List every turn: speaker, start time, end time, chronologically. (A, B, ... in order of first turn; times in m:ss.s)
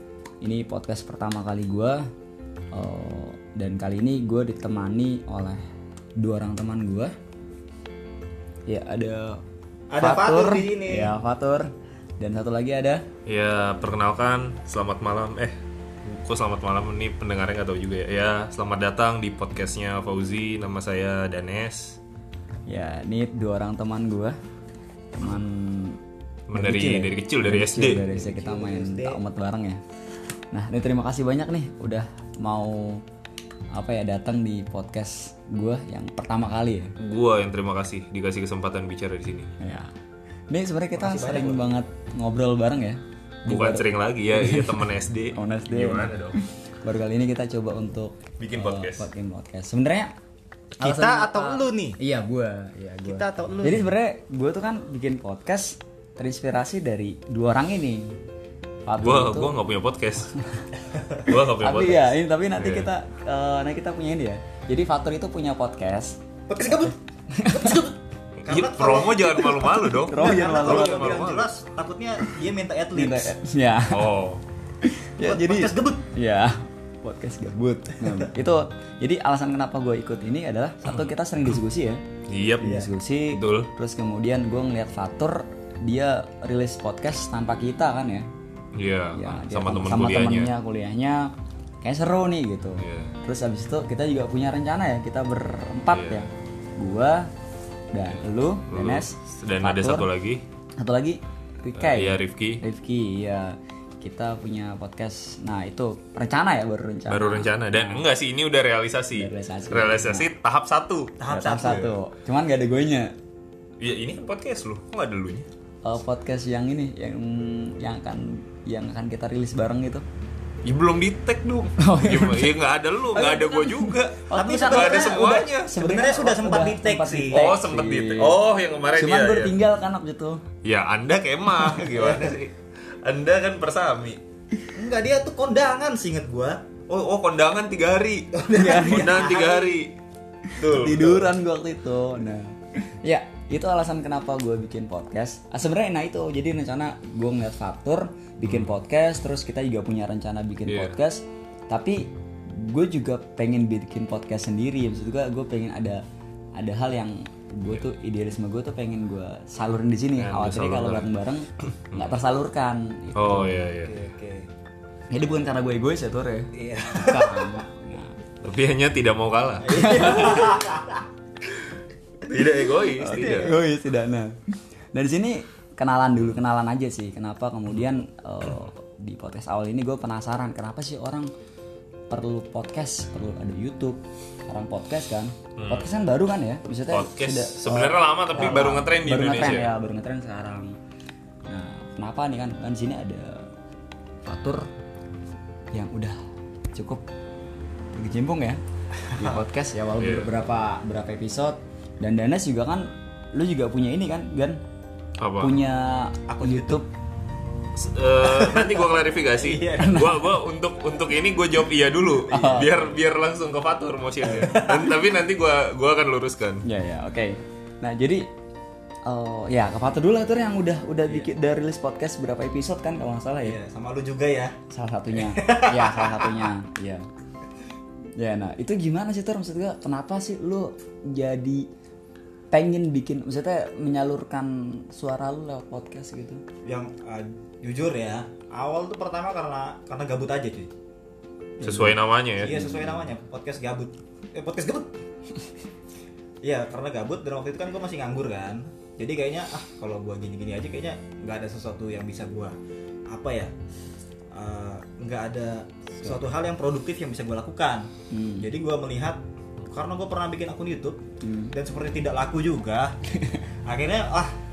0:00.4-0:02.1 A
0:02.7-0:05.6 A
0:06.2-0:07.1 A
0:08.7-0:09.4 A
0:09.9-0:11.1 B
0:10.0-0:13.0 A
0:13.2-0:22.0 C
0:22.7-0:24.4 A
0:25.1-0:26.0 A
0:26.5-0:28.1 C
0:26.5-0:29.8 A
0:28.0-0:29.2 B
0:30.5-0:33.0 A
0:33.7-0:36.9 A
0:37.0-0:39.6 C
0:39.6-0:39.9 A
0:40.5-0:50.1 A
0:41.0-0:41.8 B
0:43.4-0:46.4 C
0:48.4-0:49.1 C
0:50.8-0:58.2 A
0:50.8-0:52.0 B
0:53.0-0:53.8 B
0:58.8-0:59.6 A
0:59.0-1:00.4 C
1:00.9-1:01.2 B
1:01.2-1:02.9 C
1:01.3-1:06.2 A
1:06.5-1:07.0 B
1:07.3-1:07.8 A
1:07.5-1:13.4 B
1:08.5-1:11.5 C
1:09.2-1:11.1 A
1:12.9-1:14.1 A
1:13.9-1:14.4 C
1:14.8-1:22.0 A
1:15.2-1:16.0 B
1:18.0-1:18.3 B
1:20.8-1:21.1 C
1:22.3-1:23.7 C
1:22.6-1:28.3 A
1:28.7-1:30.5 C
1:29.1-1:37.3 A
1:32.8-1:33.1 C
1:35.9-1:36.2 C
1:37.9-1:40.1 A
1:38.1-1:40.4 C
1:40.8-1:48.0 A
1:41.8-1:42.6 C
1:47.1-1:51.2 C
1:49.1-1:50.3 A
1:51.2-1:51.9 B
1:51.3-1:53.1 A
1:53.8-1:55.5 C
1:55.8-2:00.0 A
2:00.6-2:05.9 C
2:01.8-2:02.6 A
2:03.1-2:08.4 A
2:04.3-2:05.2 B
2:05.8-2:07.5 B
2:07.3-2:09.6 C
2:08.9-2:10.4 A
2:10.6-2:14.2 C
2:11.6-2:12.1 A
2:14.7-2:16.7 B
2:16.9-2:20.0 C
2:18.3-2:19.8 B
2:18.5-2:19.3 A
2:20.5-2:36.0 A
2:20.6-2:21.3 C
2:28.4-2:28.7 C
2:30.7-2:31.0 C
2:36.6-2:43.6 A
2:40.2-2:41.1 C
2:41.6-2:42.2 C
2:43.1-2:44.0 C
2:43.8-2:44.5 B
2:45.1-2:48.2 A
2:46.5-2:47.6 B
2:48.4-2:50.1 C
2:49.6-2:51.0 B
2:49.7-2:50.6 A
2:52.2-2:53.5 C
2:52.5-2:53.5 B
2:52.9-3:01.3 A
3:02.1-3:10.8 A
3:05.6-3:05.9 C
3:06.9-3:09.7 C
3:08.4-3:08.7 B
3:11.5-3:13.5 A
3:14.2-3:14.7 A
3:15.7-3:16.2 A
3:16.7-3:17.0 A
3:17.9-3:24.6 A
3:19.1-3:19.4 B
3:20.0-3:20.3 C
3:25.2-3:25.6 C
3:25.4-3:26.9 A
3:26.3-3:26.8 B
3:27.7-3:36.6 C
3:28.2-3:30.1 B
3:29.8-3:30.3 A
3:32.3-3:32.9 A
3:34.3-3:34.9 B
3:36.6-3:38.3 A
3:39.0-3:43.6 A
3:43.4-3:44.6 B
3:44.7-3:47.1 A
3:45.1-3:46.5 B
3:48.2-3:51.7 A
3:52.5-3:56.4 A
3:56.6-4:00.7 B
4:01.6-4:02.6 C
4:01.6-4:03.1 A
4:01.7-4:04.9 B
4:06.4-4:12.6 B
4:13.1-4:13.5 B
4:14.3-4:22.9 B
4:18.1-4:18.5 A
4:21.2-4:21.5 A
4:23.6-4:24.3 B